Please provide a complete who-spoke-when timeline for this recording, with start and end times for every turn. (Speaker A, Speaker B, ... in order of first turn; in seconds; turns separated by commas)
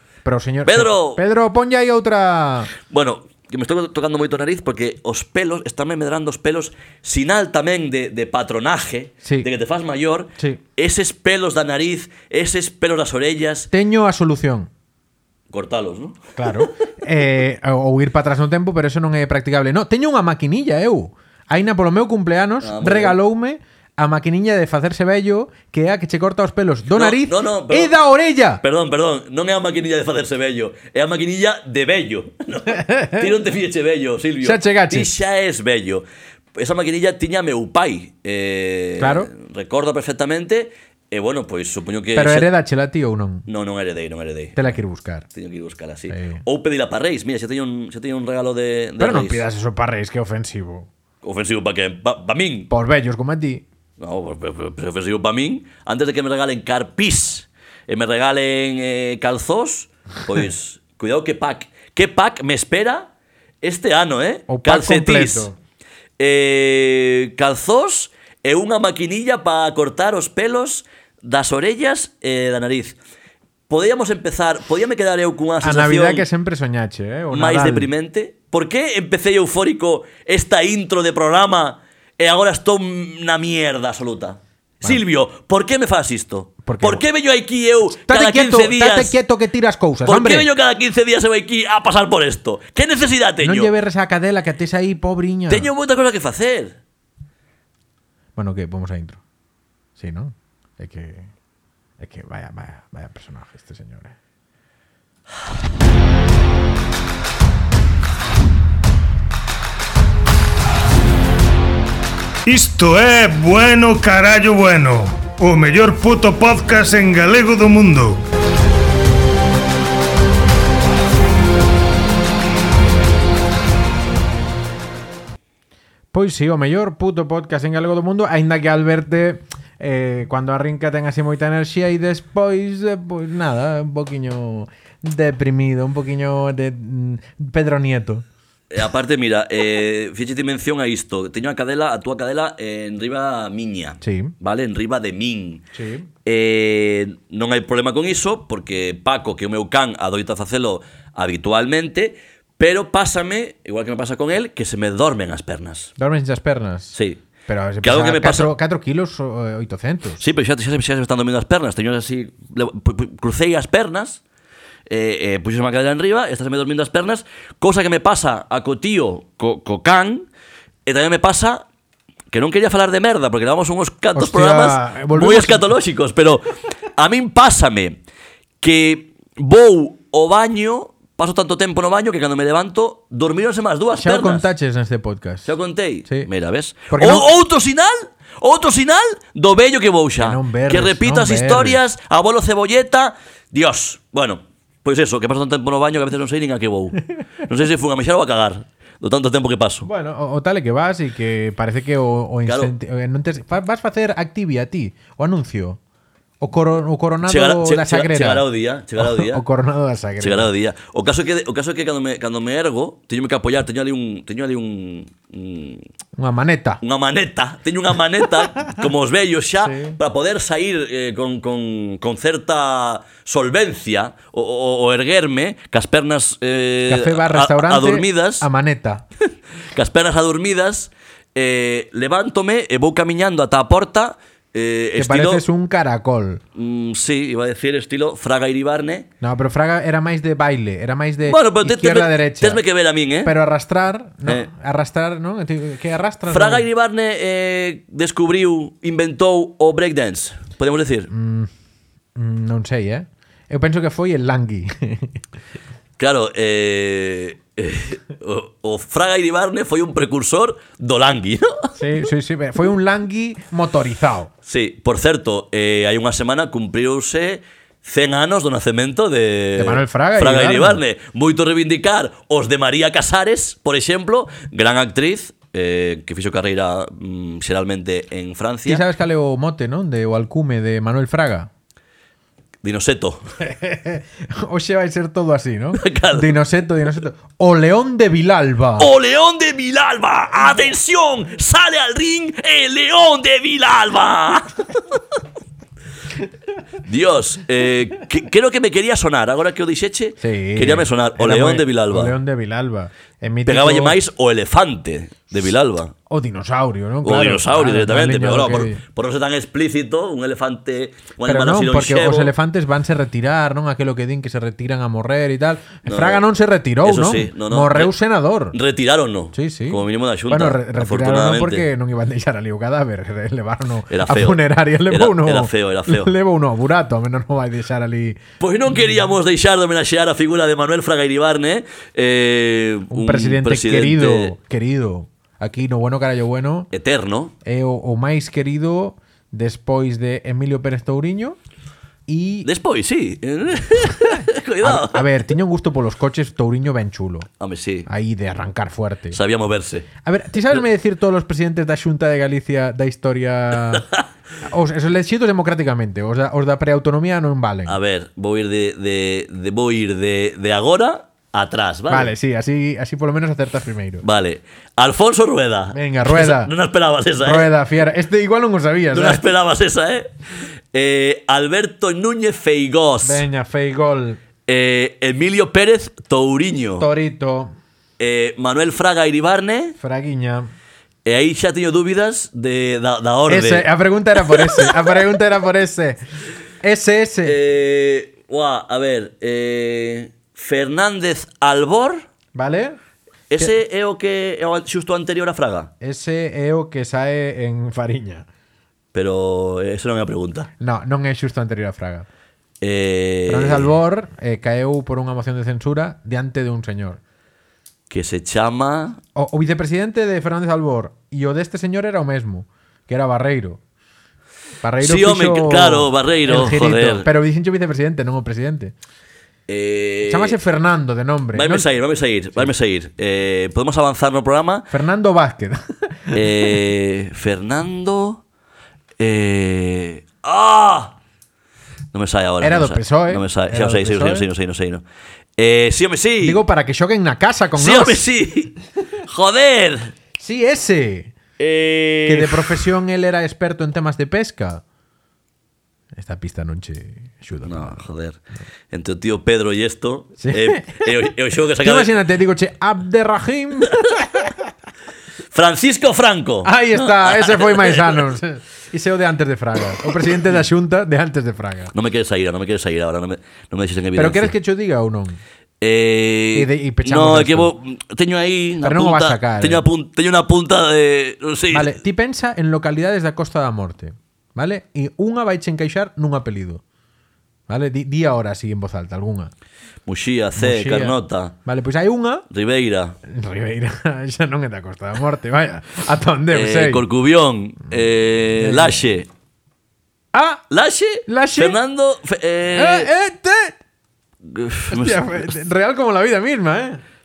Speaker A: 0.2-2.7, Speaker B: 0.7-1.2, Speaker B: 2.8-13.7, Speaker A: 9.2-9.5, Speaker A: 13.7-14.7, Speaker B: 15.5-16.6, Speaker A: 16.4-28.6, Speaker B: 22.6-23.2, Speaker B: 26.9-27.9, Speaker B: 28.6-36.0, Speaker A: 32.7-33.3, Speaker A: 34.4-35.1, Speaker B: 36.5-42.5, Speaker A: 39.0-39.3, Speaker A: 42.1-43.5, Speaker B: 43.5-44.8, Speaker A: 44.6-45.2, Speaker B: 45.3-49.4, Speaker A: 46.1-46.4, Speaker A: 49.0-50.9, Speaker B: 51.2-52.7, Speaker A: 52.7-53.6, Speaker B: 54.0-63.1, Speaker B: 63.6-65.5, Speaker A: 64.5-65.6, Speaker B: 66.2-73.0, Speaker B: 73.7-76.2, Speaker A: 75.6-77.9, Speaker B: 77.3-89.2, Speaker A: 86.6-87.0, Speaker A: 87.9-90.5, Speaker B: 90.0-93.7, Speaker A: 93.4-95.7, Speaker B: 95.5-96.8, Speaker A: 98.4-99.2, Speaker A: 100.0-101.3, Speaker A: 102.0-104.2, Speaker C: 112.5-118.2, Speaker A: 126.1-138.2, Speaker B: 138.7-145.7, Speaker A: 144.0-144.3, Speaker A: 145.7-146.1, Speaker B: 146.2-155.9, Speaker A: 156.0-160.2, Speaker B: 156.9-157.2, Speaker B: 157.8-158.5, Speaker B: 160.2-164.2, Speaker B: 164.9-170.3, Speaker B: 170.9-171.7, Speaker B: 172.3-176.4, Speaker A: 174.2-175.7, Speaker B: 177.0-178.0, Speaker B: 178.6-184.4, Speaker A: 184.0-185.5, Speaker B: 185.4-199.9, Speaker A: 186.9-187.3, Speaker A: 190.2-191.8, Speaker A: 199.8-205.8, Speaker B: 202.4-202.7, Speaker A: 206.4-208.4, Speaker B: 207.2-209.4, Speaker A: 209.0-210.5, Speaker B: 210.2-215.8, Speaker A: 216.2-216.8, Speaker B: 216.8-228.4, Speaker A: 219.6-220.0, Speaker A: 226.9-229.0, Speaker B: 229.7-235.4, Speaker A: 234.9-236.4, Speaker B: 236.6-239.1, Speaker A: 239.2-242.6, Speaker B: 241.2-243.3, Speaker A: 243.2-246.7, Speaker B: 246.3-251.1, Speaker A: 251.1-251.5, Speaker A: 252.2-255.1, Speaker B: 256.0-261.7, Speaker A: 261.8-264.3, Speaker B: 264.4-278.8, Speaker A: 269.6-270.8, Speaker A: 278.7-281.5, Speaker B: 282.6-283.2, Speaker A: 283.4-288.9, Speaker B: 285.8-286.3, Speaker B: 288.8-294.7, Speaker B: 296.8-302.1, Speaker A: 300.2-304.0, Speaker B: 303.4-305.9, Speaker A: 306.1-308.8, Speaker B: 307.0-312.3, Speaker A: 311.2-318.6, Speaker B: 315.9-316.2, Speaker B: 316.8-317.9, Speaker B: 318.5-321.7, Speaker A: 319.3-328.2, Speaker B: 323.9-326.1, Speaker B: 328.4-334.3, Speaker A: 332.9-336.7, Speaker B: 336.7-337.3, Speaker A: 337.4-341.4, Speaker A: 342.1-342.5, Speaker B: 342.4-345.1, Speaker A: 343.9-347.3, Speaker B: 347.4-347.9, Speaker A: 347.9-349.2, Speaker B: 349.1-349.9, Speaker A: 350.0-353.9, Speaker B: 353.7-354.0, Speaker A: 354.4-357.8, Speaker B: 357.7-362.1, Speaker A: 361.9-364.1, Speaker B: 364.0-367.5, Speaker A: 365.7-366.5, Speaker A: 367.2-369.2, Speaker B: 368.9-370.1, Speaker B: 370.7-373.2, Speaker A: 373.0-374.2, Speaker B: 374.5-376.9, Speaker A: 376.8-377.5, Speaker B: 378.0-379.8, Speaker A: 379.8-380.5, Speaker B: 381.1-383.7, Speaker A: 383.3-386.0, Speaker B: 384.3-384.9, Speaker A: 386.6-387.4, Speaker B: 387.2-392.0, Speaker A: 392.3-392.8, Speaker B: 393.3-395.7, Speaker A: 395.8-398.3, Speaker B: 398.9-400.5, Speaker A: 400.6-402.1, Speaker B: 402.6-403.7, Speaker A: 403.3-407.0, Speaker B: 407.9-409.0, Speaker A: 409.2-413.6, Speaker A: 414.6-418.7, Speaker B: 414.8-417.1, Speaker B: 419.5-420.4, Speaker A: 420.1-421.7, Speaker B: 421.3-424.7, Speaker A: 424.7-426.5, Speaker B: 426.1-428.2, Speaker B: 429.0-430.9, Speaker B: 431.9-434.8, Speaker A: 432.4-434.3, Speaker B: 435.4-436.4, Speaker A: 436.2-438.0, Speaker B: 437.6-438.6, Speaker B: 439.1-439.9, Speaker A: 440.2-441.1, Speaker B: 441.4-442.7, Speaker A: 442.1-444.6, Speaker A: 445.9-447.8, Speaker B: 447.4-448.2, Speaker B: 448.7-451.9, Speaker A: 450.2-450.9, Speaker A: 451.6-454.3, Speaker B: 455.3-458.0, Speaker A: 456.4-461.7, Speaker B: 459.9-460.2, Speaker B: 461.7-464.3, Speaker A: 463.9-465.2, Speaker B: 465.6-471.8, Speaker A: 466.3-467.5, Speaker A: 468.6-469.7, Speaker A: 471.5-476.6, Speaker A: 477.5-479.3, Speaker B: 479.9-481.3, Speaker A: 480.4-482.2, Speaker B: 482.3-483.0, Speaker A: 483.1-486.8, Speaker B: 486.3-489.1, Speaker A: 488.4-488.8, Speaker A: 490.1-490.4, Speaker B: 490.5-492.9, Speaker A: 491.1-491.6, Speaker A: 492.5-493.6, Speaker B: 494.2-495.2, Speaker A: 494.7-496.8